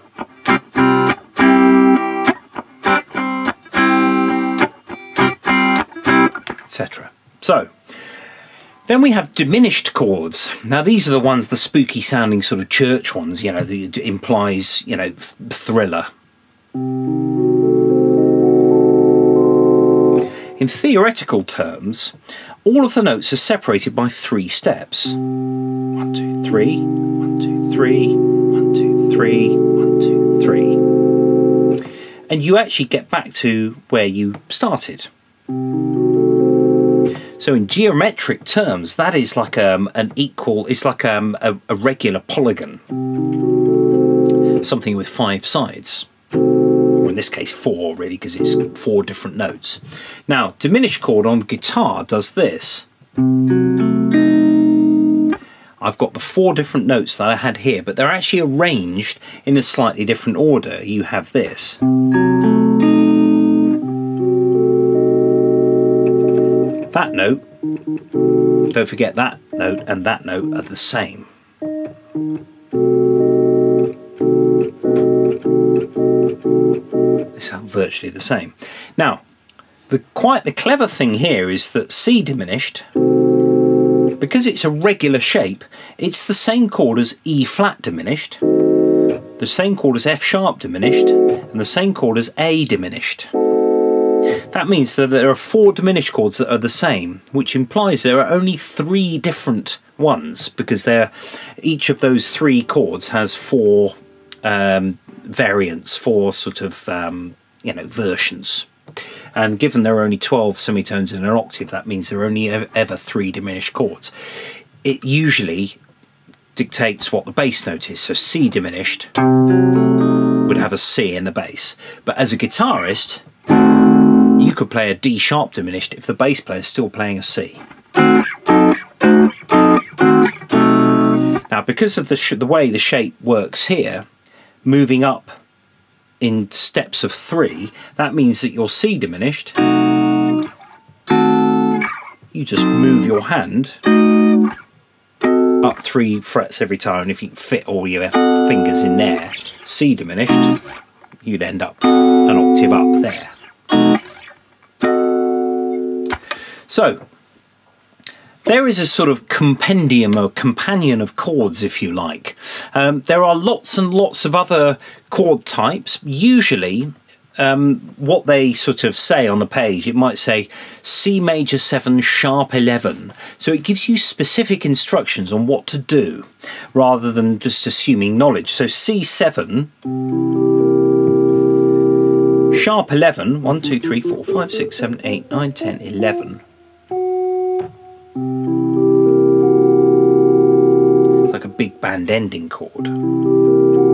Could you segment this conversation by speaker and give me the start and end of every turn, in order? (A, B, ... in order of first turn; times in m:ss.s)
0:06.7-0:07.7 A
0:08.9-0:16.1 A
0:20.6-0:25.2 A
0:26.0-0:30.8 A
0:32.3-0:35.1 A
0:37.4-0:42.8 A
0:44.6-0:46.1 A
0:47.0-0:52.9 A
0:55.8-1:01.8 A
1:06.9-1:07.4 A
1:08.7-1:11.3 A
1:17.4-1:19.2 A
1:19.9-1:22.8 A
1:24.2-1:28.4 A
1:29.4-1:33.3 A
1:34.5-1:48.7 A
1:49.4-1:54.1 A
1:54.8-1:55.8 A
1:56.6-1:59.1 A
2:00.4-2:03.2 A
2:04.4-2:07.6 A
2:11.5-2:14.1 A
2:14.6-2:15.4 A
2:16.2-2:19.6 A
2:22.3-2:23.8 A
2:25.6-2:30.6 A
2:31.2-2:33.3 A
2:36.7-2:37.0 A
2:38.4-2:59.7 A
3:02.5-3:06.4 A
3:11.2-3:13.0 A